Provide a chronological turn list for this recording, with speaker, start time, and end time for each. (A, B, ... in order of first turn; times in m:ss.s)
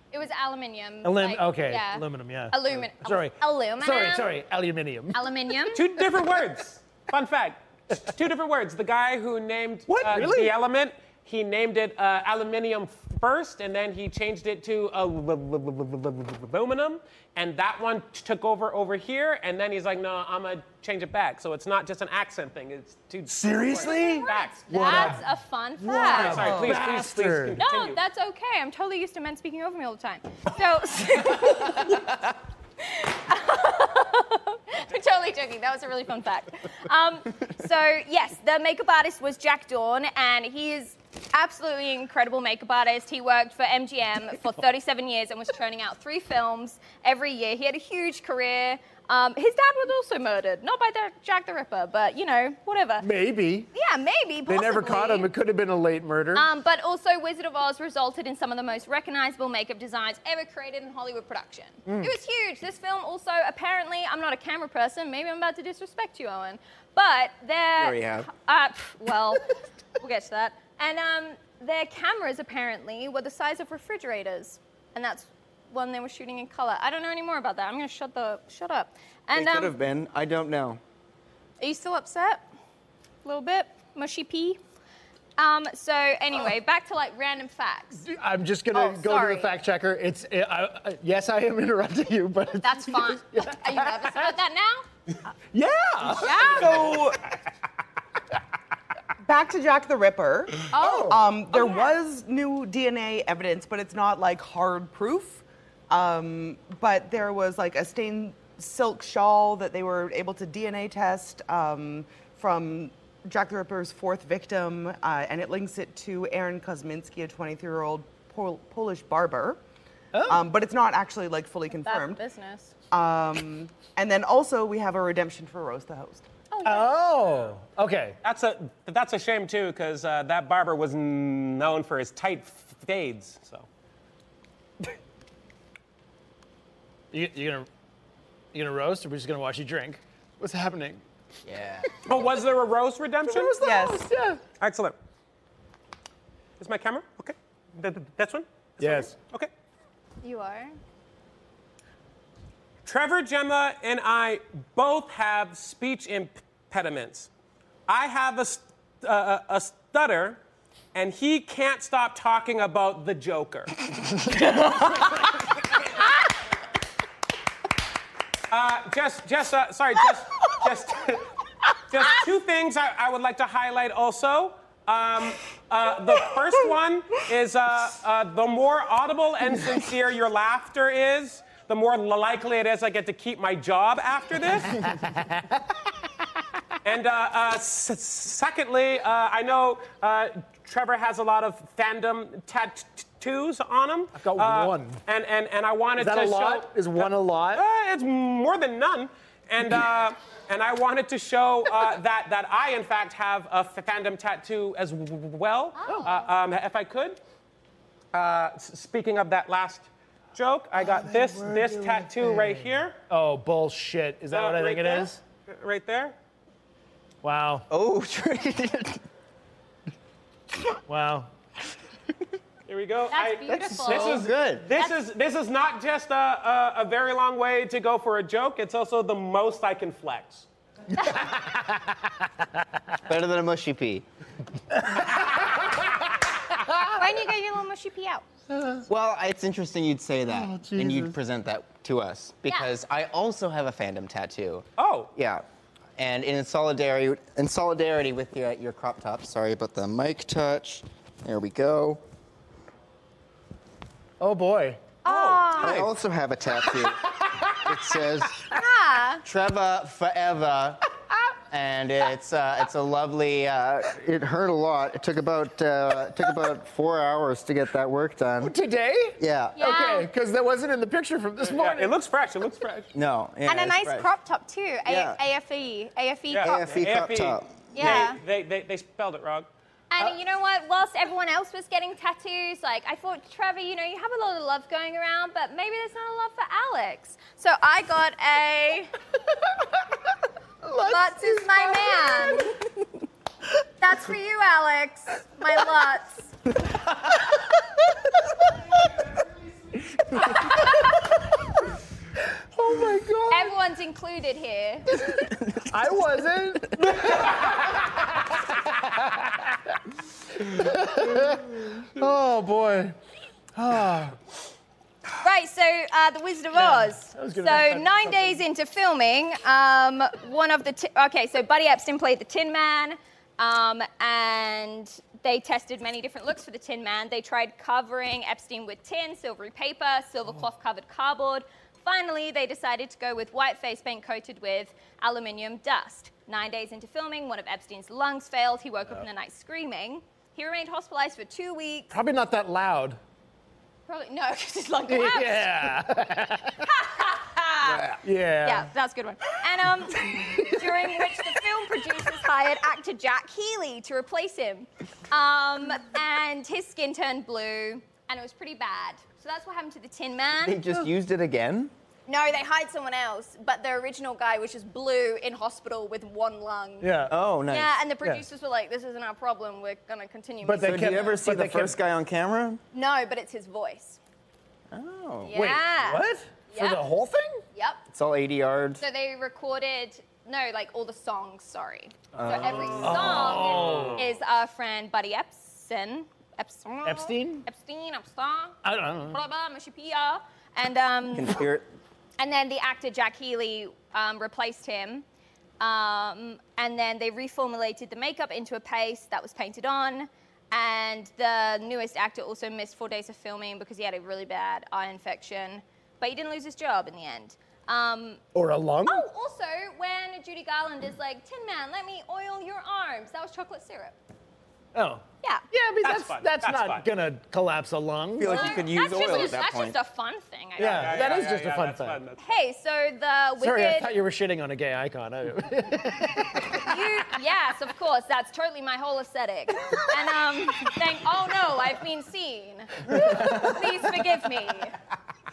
0:00.1-0:04.4 A
0:01.0-0:05.2 B
0:05.1-0:06.0 A
0:05.7-0:25.2 C
0:09.9-0:10.6 B
0:23.3-0:25.2 B
0:23.8-0:26.5 A
0:25.8-0:27.6 B
0:26.0-0:28.0 C
0:26.4-0:26.8 D
0:27.6-0:32.2 A
0:32.8-0:53.1 A
0:53.0-0:53.7 B
0:53.7-0:55.3 A
0:54.5-0:56.5 B
0:56.3-1:19.7 A
1:01.9-1:02.2 B
1:07.8-1:08.3 E
1:19.3-1:20.8 E
1:21.6-1:22.4 A
1:23.2-1:24.6 A
1:25.4-1:28.0 A
1:28.0-1:34.4 B
1:28.7-1:29.5 A
1:32.6-1:34.9 A
1:35.5-1:36.6 B
1:36.2-1:37.0 A
1:36.4-1:37.2 D
1:36.6-1:36.9 C
1:39.2-1:59.6 D
1:40.7-1:42.0 A
1:40.8-1:41.2 B
2:00.1-2:00.5 B
2:00.3-2:02.2 D
2:01.8-2:02.7 A
2:02.9-2:06.3 D
2:06.5-2:07.0 A
2:06.6-2:08.2 B
2:08.2-2:13.7 C
2:17.1-2:17.7 B
2:18.5-2:21.0 B
2:21.4-2:21.9 E
2:22.0-2:23.6 C
2:23.3-2:24.4 B
2:23.6-2:24.1 D
2:24.6-2:25.0 C
2:26.6-2:29.5 C
2:28.8-2:29.2 B
2:30.2-2:30.8 A
2:32.9-2:37.3 C
2:37.9-2:40.4 C
2:40.9-2:43.8 C
2:48.5-3:04.8 C
3:04.8-3:05.8 B
3:06.8-3:27.2 C
3:14.2-3:15.0 B
3:16.0-3:17.6 B
3:25.8-3:26.3 A
3:28.1-3:33.0 C
3:31.2-3:35.2 B
3:34.3-3:36.2 C
3:37.2-3:37.7 B
3:37.7-3:39.0 E
3:40.9-3:41.3 B
3:42.7-3:50.5 C
3:43.1-3:45.0 A
3:43.5-3:44.7 E
3:51.2-3:52.2 B
3:53.1-3:54.1 E
3:54.8-3:55.8 B
3:56.5-3:57.1 B
3:56.9-3:58.2 A
3:58.5-3:58.8 B
3:58.9-4:05.4 E
4:00.3-4:01.2 B
4:04.8-4:05.1 C
4:06.0-4:12.0 E
4:14.2-4:14.8 B
4:15.0-4:15.9 A
4:15.0-4:15.9 C
4:15.6-4:18.5 E
4:16.8-4:18.5 B
4:18.5-4:19.2 A
4:19.2-4:20.8 E
4:21.5-4:28.5 E
4:28.4-4:31.9 B
4:29.2-4:29.7 E
4:29.6-4:30.1 A
4:31.4-4:32.9 C
4:32.9-4:34.1 E
4:33.5-4:36.7 A
4:34.9-4:35.2 E
4:36.3-4:39.5 C
4:36.4-4:38.1 E
4:37.7-4:38.2 A
4:39.9-4:48.9 A
4:50.6-4:52.6 B
4:50.8-4:52.7 A
4:53.8-4:56.3 A
5:00.3-5:00.8 B
5:02.5-5:03.6 B
5:03.3-5:05.1 A
5:05.7-5:09.8 B
5:07.0-5:07.6 C
5:10.4-5:13.0 B
5:13.6-5:14.2 B
5:15.2-5:41.9 A
5:16.5-5:18.4 B
5:41.9-5:43.0 B
5:43.9-5:45.8 A
5:44.9-5:46.7 B
5:46.6-6:00.6 A
5:48.0-5:48.7 B
5:49.6-5:51.3 B
6:00.4-6:01.7 E
6:02.1-6:06.9 A
6:06.8-6:07.1 B
6:07.1-6:07.8 E
6:07.5-6:11.1 A
6:10.4-6:11.8 B
6:10.6-6:12.6 E
6:12.7-6:14.0 A
6:14.7-6:15.5 E
6:15.2-6:16.8 A
6:15.3-6:17.4 B
6:17.5-6:17.8 A
6:17.9-6:18.8 E
6:18.8-6:31.4 A
6:22.2-6:22.9 E
6:22.4-6:24.0 C
6:22.8-6:24.0 B
6:26.8-6:27.5 B
6:28.6-6:29.2 B
6:31.1-6:31.7 E
6:32.2-6:35.0 A
6:35.6-6:48.2 A
6:48.3-6:49.1 B
6:48.9-6:54.0 A
6:54.7-6:58.6 B
6:55.8-6:56.8 C
6:58.2-6:59.8 E
6:58.2-7:01.2 A
7:00.6-7:02.0 B
7:00.6-7:02.2 C
7:02.2-7:03.9 A
7:03.4-7:07.0 B
7:06.5-7:14.8 A
7:12.8-7:14.0 B